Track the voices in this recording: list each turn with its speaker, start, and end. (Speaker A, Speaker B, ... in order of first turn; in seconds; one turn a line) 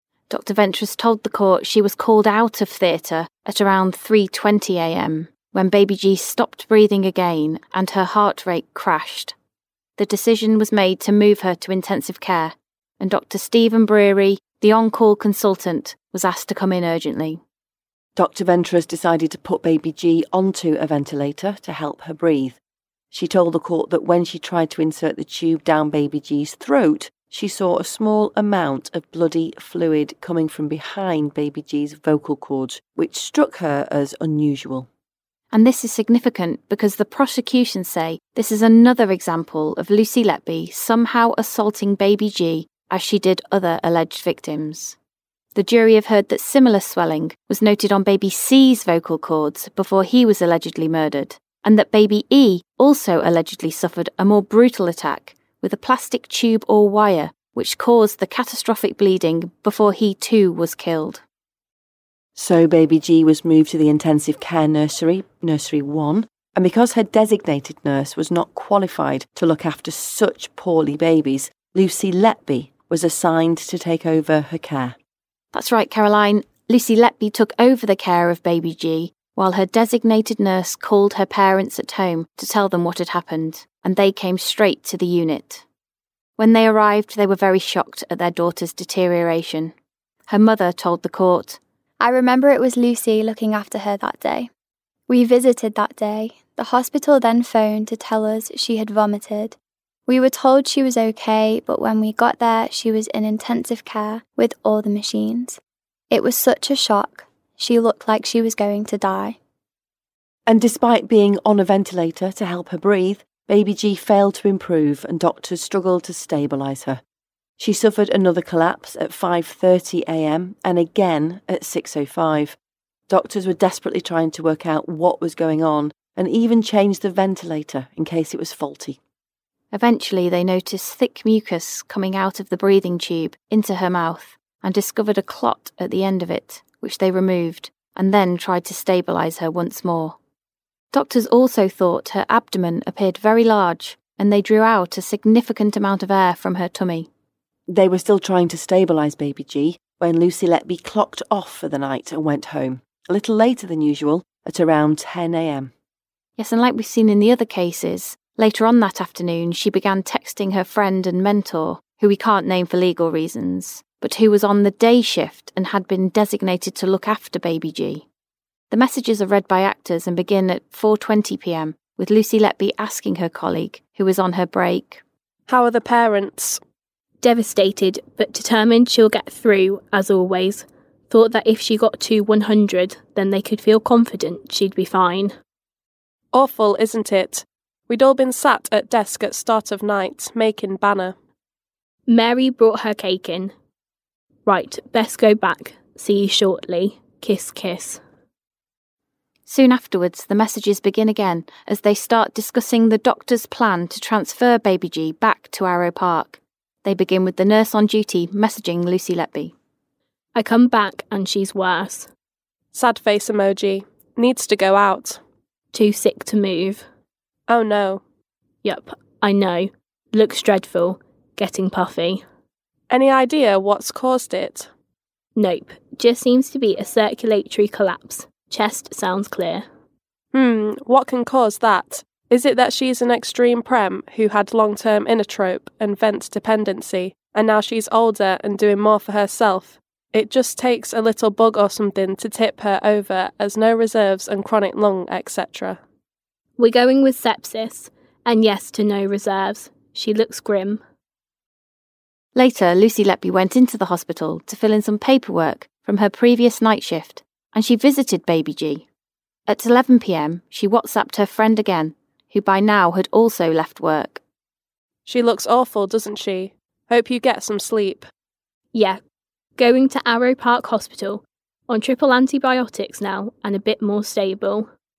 Speaker A: 0.3-9.3
Speaker A: 10.0-17.4
Speaker B: 18.1-22.6
Speaker B: 23.1-34.9
Speaker A: 35.5-45.0
Speaker A: 45.5-61.2
Speaker B: 62.4-75.0
Speaker A: 75.5-85.6
Speaker A: 86.4-89.7
Speaker A: 90.3-91.6
Speaker C: 92.0-94.5
Speaker C: 95.1-105.6
Speaker C: 106.1-109.4
Speaker B: 110.5-117.0
Speaker B: 117.6-122.6
Speaker B: 123.1-129.0
Speaker A: 129.7-140.2
Speaker A: 140.9-147.1
Speaker B: 147.7-155.7
Speaker A: 156.4-168.1
Speaker A: 168.7-175.0
Speaker D: 175.5-176.6
Speaker E: 177.2-185.3
Speaker D: 186.3-191.2
Speaker E: 192.1-193.5
Speaker E: 194.5-198.0
Speaker A: 199.5-209.5
Speaker E: 210.3-212.1
Speaker D: 212.7-215.2
Speaker E: 215.7-216.9
Speaker D: 217.5-218.0
Speaker E: 218.6-222.2
Speaker D: 222.9-224.7
Speaker E: 225.4-229.7
Speaker D: 230.3-245.8
Speaker E: 246.6-250.8
Speaker A: 252.3-258.9
Speaker A: 259.5-264.2
Speaker D: 265.1-268.1
Speaker E: 268.7-269.0
Speaker E: 269.6-274.7